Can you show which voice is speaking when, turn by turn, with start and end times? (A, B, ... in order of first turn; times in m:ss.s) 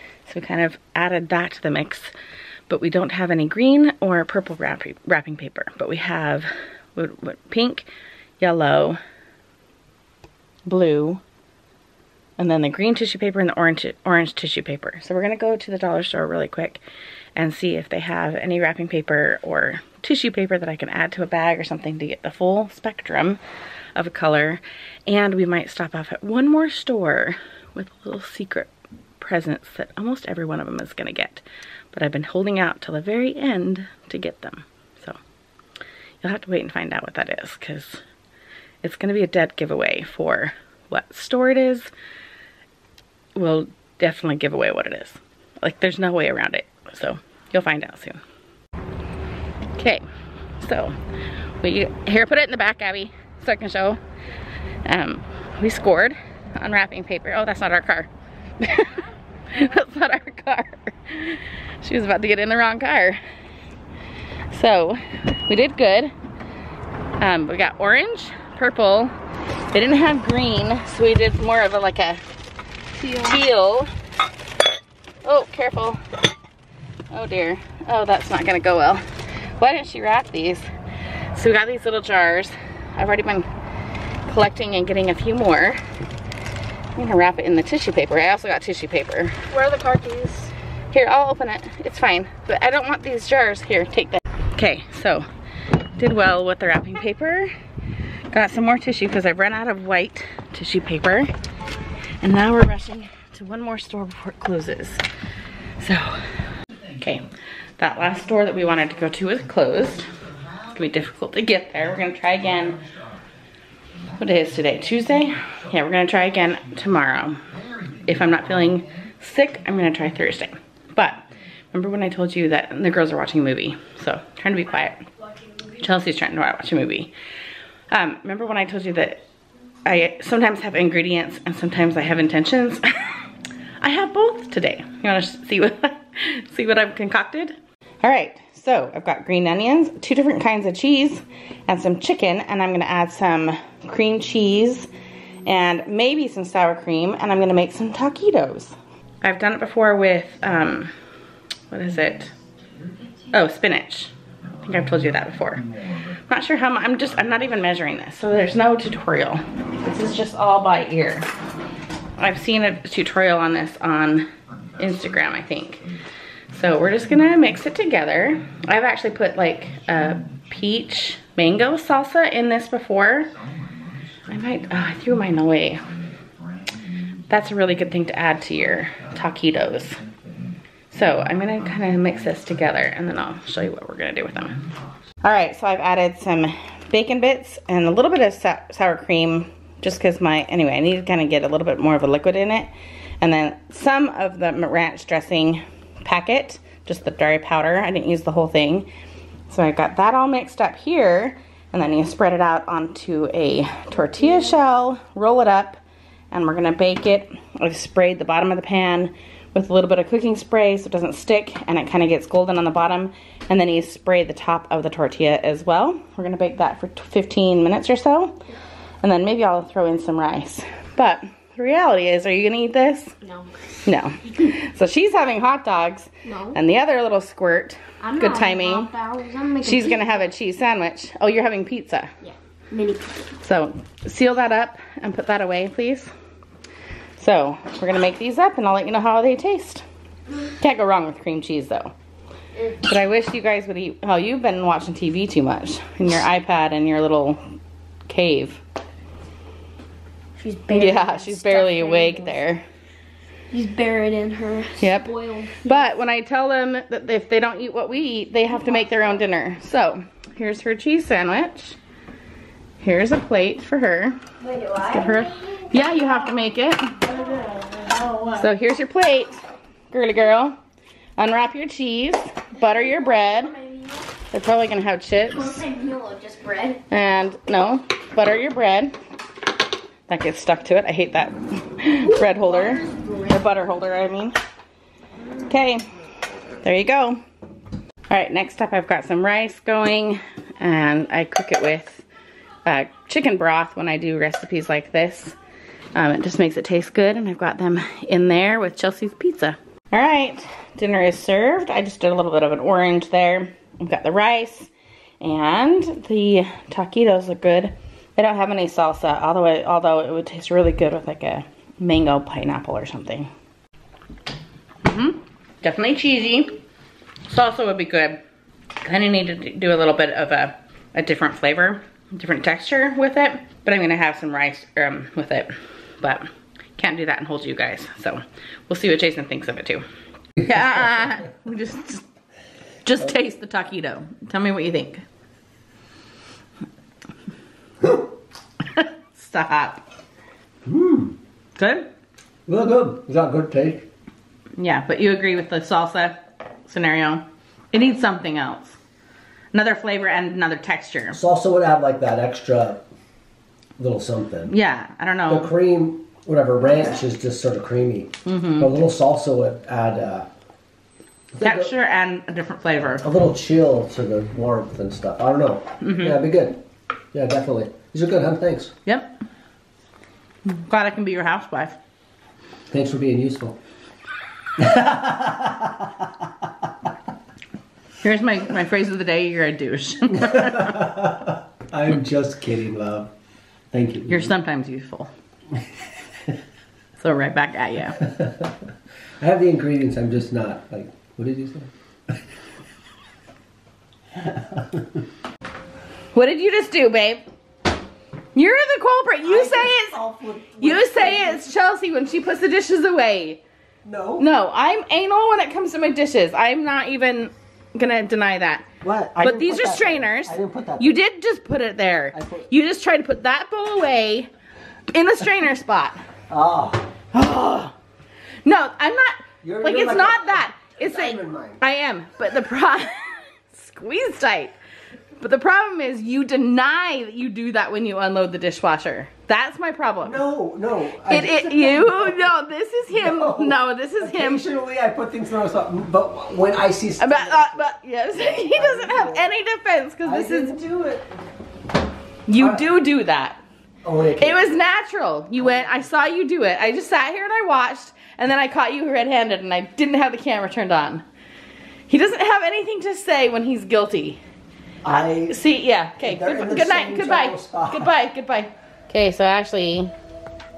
0:00.2-0:02.1 A
0:02.7-0:07.9 A
0:08.4-0:09.0 A
0:10.6-0:11.2 A
0:12.4-0:16.8 A
0:17.4-0:23.4 A
0:24.0-0:35.2 A
0:36.2-0:38.0 A
0:38.8-0:41.9 A
0:43.4-0:48.2 A
0:49.7-0:50.0 A
0:50.6-0:51.0 A
0:51.6-0:54.0 A
0:54.8-1:03.2 A
1:04.5-1:06.1 A
1:07.2-1:09.1 A
1:09.7-1:12.2 A
1:13.0-1:13.3 B
1:13.0-1:13.9 A
1:15.2-1:16.0 A
1:17.1-1:19.0 A
1:19.6-1:20.6 A
1:21.3-1:23.5 A
1:24.2-1:25.8 A
1:26.9-1:35.3 A
1:35.9-1:37.5 A
1:38.3-1:41.3 A
1:42.2-1:45.0 A
1:45.8-1:46.3 A
1:46.9-1:50.1 A
1:50.7-1:52.8 A
1:54.1-1:57.4 A
1:58.0-2:05.1 A
2:05.7-2:07.1 A
2:07.9-2:09.2 A
2:09.8-2:12.8 A
2:13.8-2:24.9 A
2:25.4-2:30.9 A
2:31.7-2:32.3 A
2:33.3-2:35.7 A
2:36.2-2:41.3 A
2:42.2-2:45.9 A
2:46.5-2:53.4 A
2:54.3-2:55.9 A
2:57.3-3:00.0 A
3:00.9-3:04.6 A
3:05.2-3:18.9 A
3:19.5-3:25.8 A
3:26.3-3:38.4 A
3:39.0-3:43.1 A
3:43.8-3:48.9 A
3:46.2-3:46.6 B
3:48.0-3:50.2 B
3:49.6-3:52.1 A
3:52.2-3:53.3 B
3:53.4-3:56.1 A
3:57.2-3:59.8 A
4:00.4-4:01.9 A
4:02.8-4:07.4 A
4:08.1-4:08.6 A
4:10.4-4:12.4 B
4:10.7-4:12.6 A
4:13.5-4:15.9 B
4:14.8-4:21.8 A
4:22.8-4:24.2 A
4:24.4-4:26.2 B
4:24.8-4:27.0 A
4:27.0-4:28.4 B
4:28.3-4:29.4 A
4:29.9-4:30.6 A
4:31.2-4:33.5 A
4:32.7-4:34.0 B
4:34.3-4:35.6 A
4:35.4-4:36.8 B
4:36.9-4:38.9 A
4:40.1-4:44.3 A
4:42.0-4:43.4 B
4:45.4-4:45.9 A
4:46.6-4:47.2 A
4:48.1-4:52.0 A
4:52.6-4:55.4 A
4:55.9-5:13.3 A
5:14.8-5:16.6 A
5:17.3-5:18.2 A
5:18.8-5:29.8 A
5:30.4-5:32.0 A
5:32.8-5:35.0 A
5:38.6-5:39.8 A
5:40.6-5:41.2 C
5:41.6-5:41.9 A
5:42.5-5:43.9 C
5:44.6-5:48.8 A
5:49.5-5:51.2 A
5:51.1-5:52.8 C
5:53.8-5:54.5 C
5:54.5-5:55.5 A
5:55.3-6:00.3 C
5:58.2-5:58.7 A
6:01.3-6:01.7 C
6:01.4-6:03.0 A
6:03.0-6:06.6 C
6:05.8-6:06.2 A
6:07.1-6:08.7 C
6:08.8-6:09.2 A
6:10.4-6:11.8 A
6:12.7-6:13.6 C
6:14.6-6:16.1 C
6:18.0-6:20.9 A
6:20.1-6:23.1 C
6:23.7-6:24.3 C
6:24.1-6:25.1 A
6:27.0-6:28.1 A
6:28.0-6:28.5 C
6:29.2-6:31.7 C
6:34.1-6:35.0 C
6:36.1-6:37.2 A
6:38.3-6:40.0 A
6:39.2-6:41.5 C
6:40.6-6:43.4 A
6:43.8-6:44.3 C
6:44.2-6:48.7 A
6:48.8-6:51.0 C
6:49.2-6:54.3 A
6:52.1-6:52.5 C
6:54.9-6:56.0 A
6:56.3-6:56.9 C
6:57.1-6:57.7 A
6:58.4-7:04.5 A
6:59.4-7:01.6 C
7:05.2-7:10.2 A
7:10.0-7:12.3 C
7:11.1-7:14.5 A
7:12.9-7:19.3 C
7:17.0-7:20.6 A
7:20.0-7:21.1 C
7:22.3-7:23.4 A
7:22.4-7:22.6 C
7:23.8-7:24.5 C
7:24.2-7:31.0 A
7:25.4-7:25.8 C
7:31.9-7:34.2 A
7:34.8-7:35.4 C
7:35.3-7:39.9 A
7:36.0-7:37.9 C